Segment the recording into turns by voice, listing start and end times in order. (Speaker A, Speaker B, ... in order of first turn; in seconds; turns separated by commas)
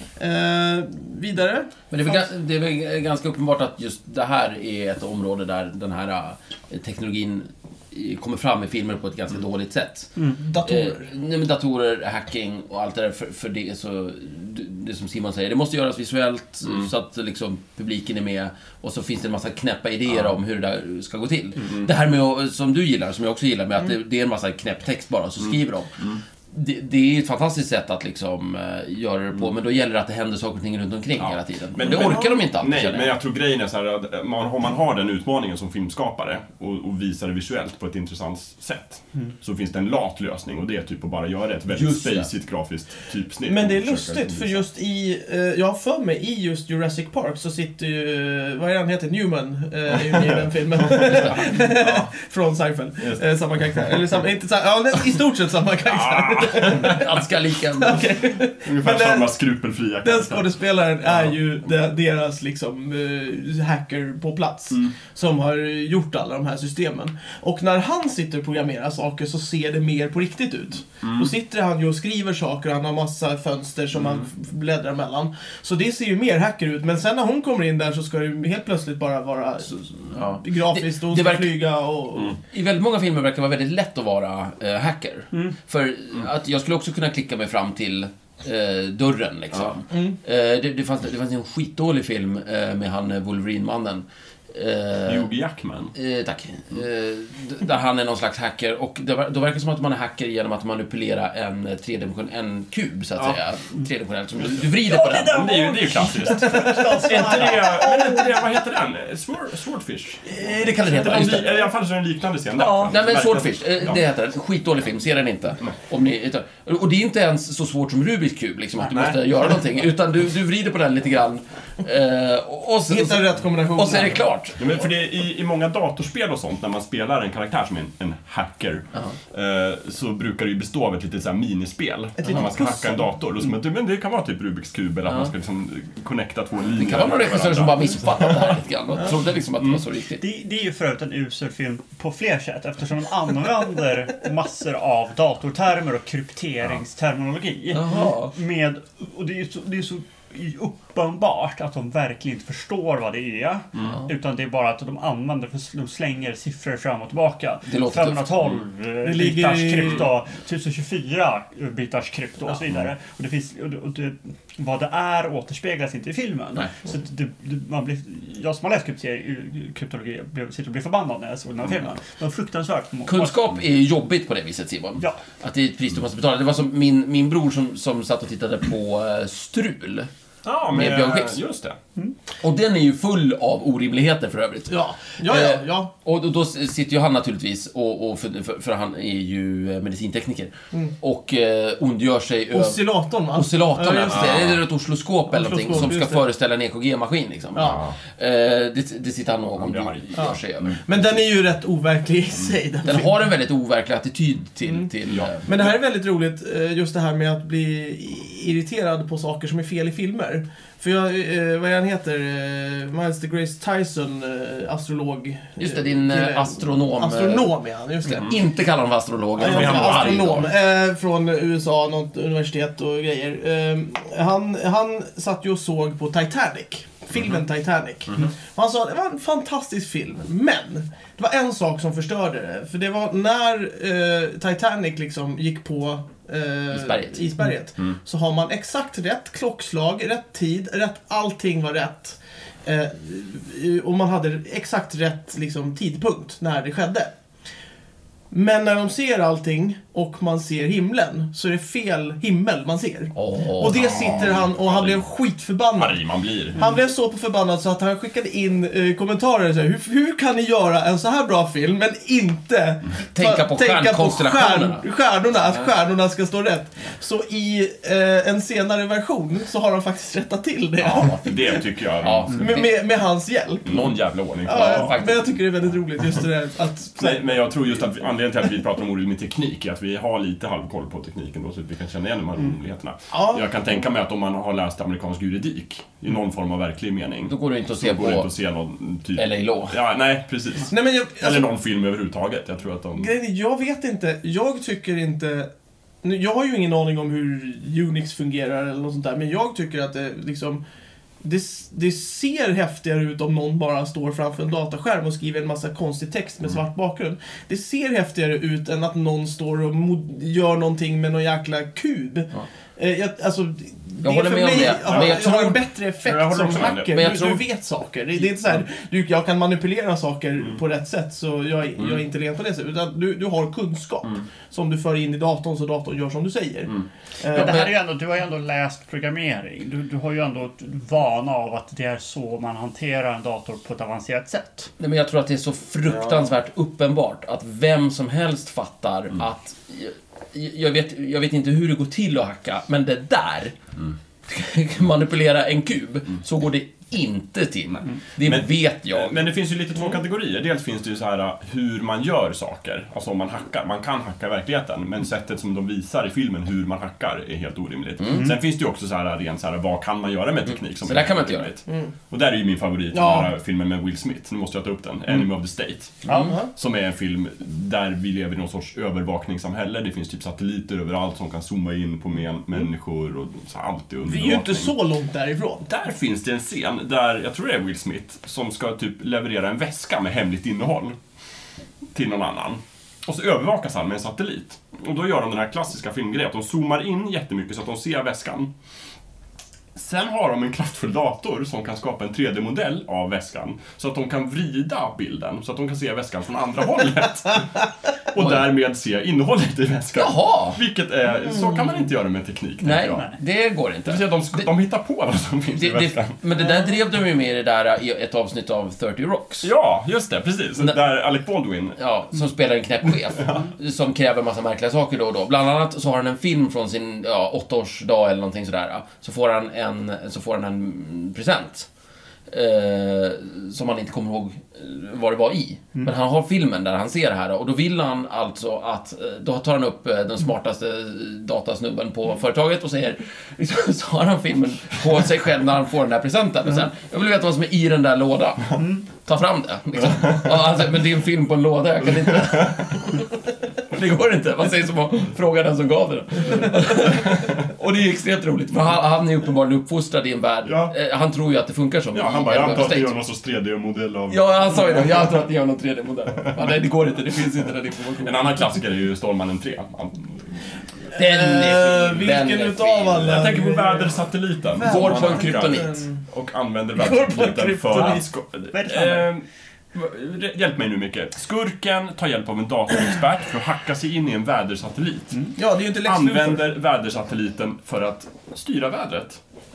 Speaker A: 0.2-2.2, Speaker B: 1.9-33.1, Speaker A: 10.4-11.1, Speaker C: 16.6-16.9, Speaker C: 21.6-21.9, Speaker C: 31.2-44.6, Speaker B: 41.7-42.3, Speaker A: 43.5-57.2, Speaker C: 50.1-52.1, Speaker C: 55.9-57.0, Speaker B: 56.6-58.0, Speaker A: 57.8-59.3, Speaker C: 58.6-60.5, Speaker A: 60.0-82.4, Speaker C: 61.0-61.4, Speaker C: 71.0-71.3, Speaker B: 80.1-81.5, Speaker B: 82.4-95.3, Speaker A: 89.9-90.2, Speaker C: 95.1-95.9, Speaker B: 95.9-105.5, Speaker D: 104.9-108.4, Speaker C: 105.2-114.0, Speaker A: 106.7-107.2, Speaker B: 110.3-111.7, Speaker D: 112.6-112.9, Speaker B: 112.9-124.6, Speaker C: 118.8-119.5, Speaker A: 122.9-124.2, Speaker C: 124.6-138.6, Speaker A: 132.2-133.0, Speaker B: 136.8-140.2, Speaker C: 139.1-139.8, Speaker D: 140.2-173.4, Speaker B: 147.7-148.3, Speaker B: 157.7-158.6, Speaker A: 159.0-160.1, Speaker B: 173.1-180.1, Speaker C: 180.4-181.8, Speaker B: 180.7-181.4, Speaker B: 182.4-192.8, Speaker A: 184.7-185.9, Speaker A: 192.5-194.4, Speaker B: 193.3-200.8, Speaker C: 194.1-194.6, Speaker A: 195.3-196.2, Speaker A: 197.6-197.8, Speaker C: 197.6-197.9, Speaker C: 199.6-200.7, Speaker A: 200.2-203.2, Speaker B: 202.8-205.4, Speaker C: 205.1-205.6, Speaker A: 205.5-218.3, Speaker B: 215.6-217.5, Speaker B: 218.1-220.5, Speaker C: 219.4-220.3, Speaker A: 219.4-247.1, Speaker B: 236.7-237.3, Speaker A: 248.3-256.0, Speaker B: 253.2-254.2, Speaker C: 253.7-255.1, Speaker C: 255.8-256.6, Speaker A: 256.6-271.5, Speaker B: 263.1-264.9, Speaker B: 270.8-272.7, Speaker C: 270.9-272.6, Speaker A: 272.3-273.9, Speaker C: 273.7-275.1, Speaker A: 274.4-277.4, Speaker B: 274.5-275.2, Speaker C: 277.0-293.1, Speaker A: 283.1-283.5, Speaker B: 287.3-288.3, Speaker B: 289.2-289.8, Speaker A: 290.7-291.5, Speaker A: 293.0-295.5, Speaker A: 296.0-300.6, Speaker A: 301.2-327.6, Speaker B: 314.0-315.6, Speaker C: 314.8-315.4, Speaker C: 316.0-317.1, Speaker B: 316.4-317.4, Speaker D: 327.3-334.7, Speaker B: 327.4-327.7, Speaker B: 334.8-343.6, Speaker A: 335.9-336.3, Speaker B: 344.3-349.2, Speaker C: 348.2-374.7, Speaker B: 360.4-361.5, Speaker A: 361.7-361.9, Speaker A: 362.9-363.3, Speaker B: 366.1-366.4, Speaker A: 366.1-366.5, Speaker A: 374.1-375.7, Speaker C: 375.7-381.0, Speaker C: 381.9-388.5, Speaker C: 389.8-403.1, Speaker B: 399.9-400.6, Speaker B: 402.6-404.5, Speaker C: 403.9-406.1, Speaker B: 405.6-409.5, Speaker A: 406.4-406.7, Speaker C: 409.4-411.8, Speaker B: 411.8-421.7, Speaker B: 422.3-443.1, Speaker D: 438.6-438.8, Speaker B: 443.7-453.0, Speaker C: 450.4-450.7, Speaker C: 451.9-455.1, Speaker B: 454.1-458.6, Speaker C: 458.0-460.3, Speaker A: 460.9-464.0, Speaker B: 460.9-463.3, Speaker C: 463.0-479.2, Speaker A: 464.5-466.0, Speaker B: 464.6-465.8, Speaker A: 466.8-468.1, Speaker D: 467.7-468.0, Speaker D: 468.5-469.1, Speaker A: 475.4-476.4